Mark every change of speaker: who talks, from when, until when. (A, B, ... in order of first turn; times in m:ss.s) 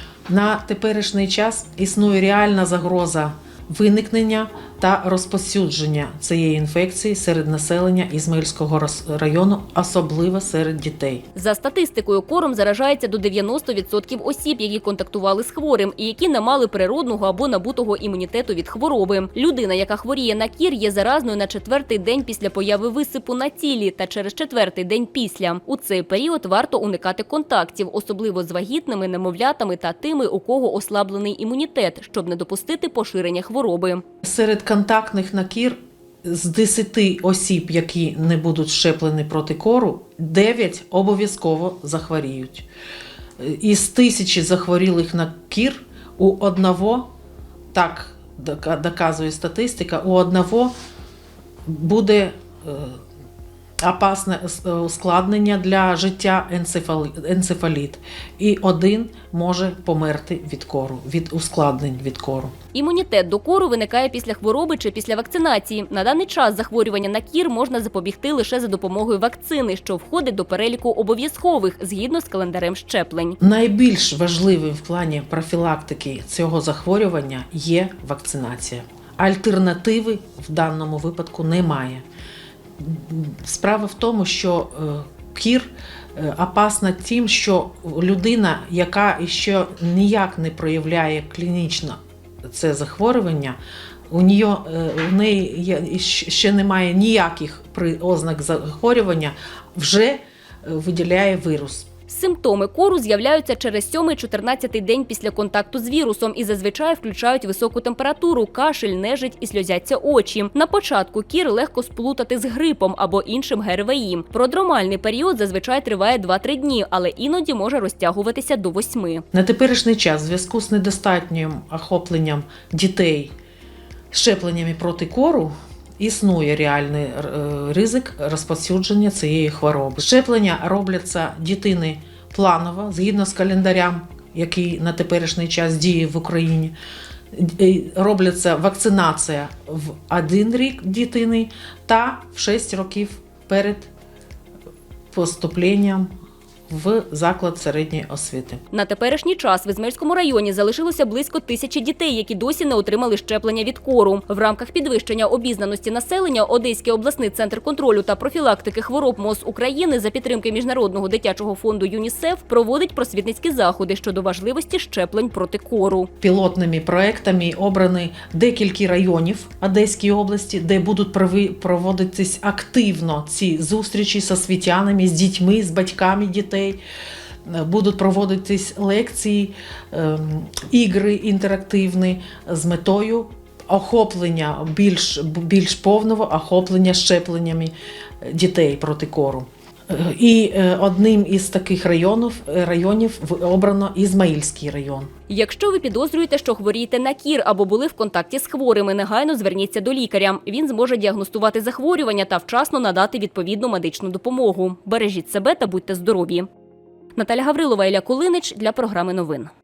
0:00.3-0:11.3 A
0:11.4-0:34.0 B
0:34.2-0:42.7 A
0:43.4-0:47.1 A
0:47.7-0:50.8 A
0:51.7-0:53.0 A
0:53.8-1:02.5 A
1:02.7-1:13.4 B
1:13.4-1:22.0 A
1:22.8-1:33.6 A
1:34.1-1:41.9 A
1:42.1-1:59.2 B
1:59.3-2:03.3 A
2:04.1-2:16.8 A
2:17.3-2:23.9 A
2:25.1-2:26.1 A
2:26.7-2:28.6 A
2:28.7-2:46.1 B
2:46.2-2:56.8 A
2:57.5-3:15.1 A
3:15.3-3:26.5 B
3:27.2-3:29.5 B